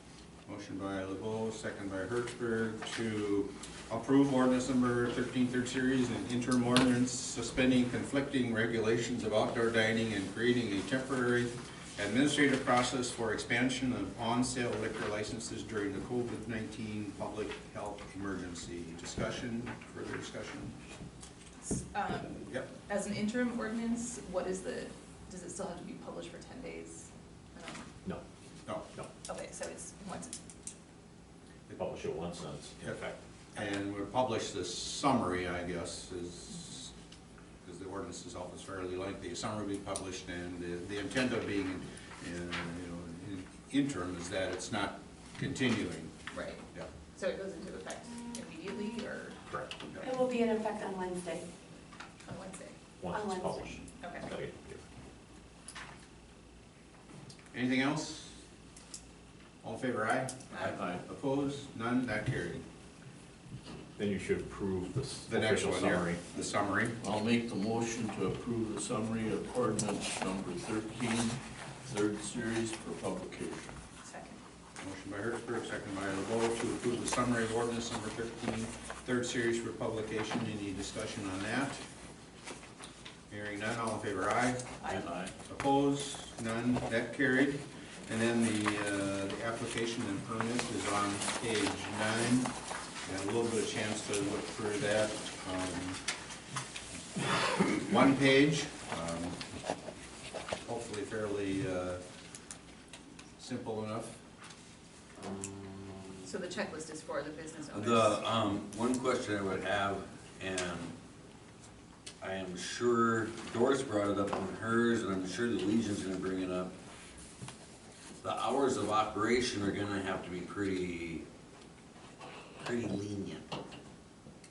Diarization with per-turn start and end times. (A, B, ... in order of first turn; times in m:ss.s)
0:00.5-0:20.8 A
0:21.6-0:27.9 B
0:29.3-0:30.4 B
0:31.8-0:33.2 C
0:33.5-0:36.9 A
0:37.6-0:46.1 A
0:46.3-0:46.6 B
0:47.2-0:49.4 B
0:49.5-0:49.7 C
0:50.0-0:51.5 D
0:52.2-0:52.8 B
0:53.0-0:54.8 C
0:53.1-0:53.6 D
0:54.0-0:54.3 B
0:57.5-0:58.4 A
0:59.6-1:02.6 A
1:00.5-1:00.9 B
1:00.7-1:01.0 E
1:04.0-1:06.2 C
1:05.3-1:07.0 A
1:07.0-1:13.8 E
1:14.0-1:14.4 B
1:14.8-1:21.8 A
1:23.3-1:24.8 A
1:24.8-1:25.1 B
1:24.9-1:25.3 E
1:25.5-1:32.5 A
1:33.0-1:36.0 A
1:37.4-1:39.4 A
1:40.6-1:42.0 A
1:43.4-1:44.2 A
1:45.2-1:46.3 F
1:46.2-1:48.3 B
1:47.7-1:51.0 F
1:52.2-1:56.8 F
1:58.2-2:01.3 F
2:02.6-2:03.5 F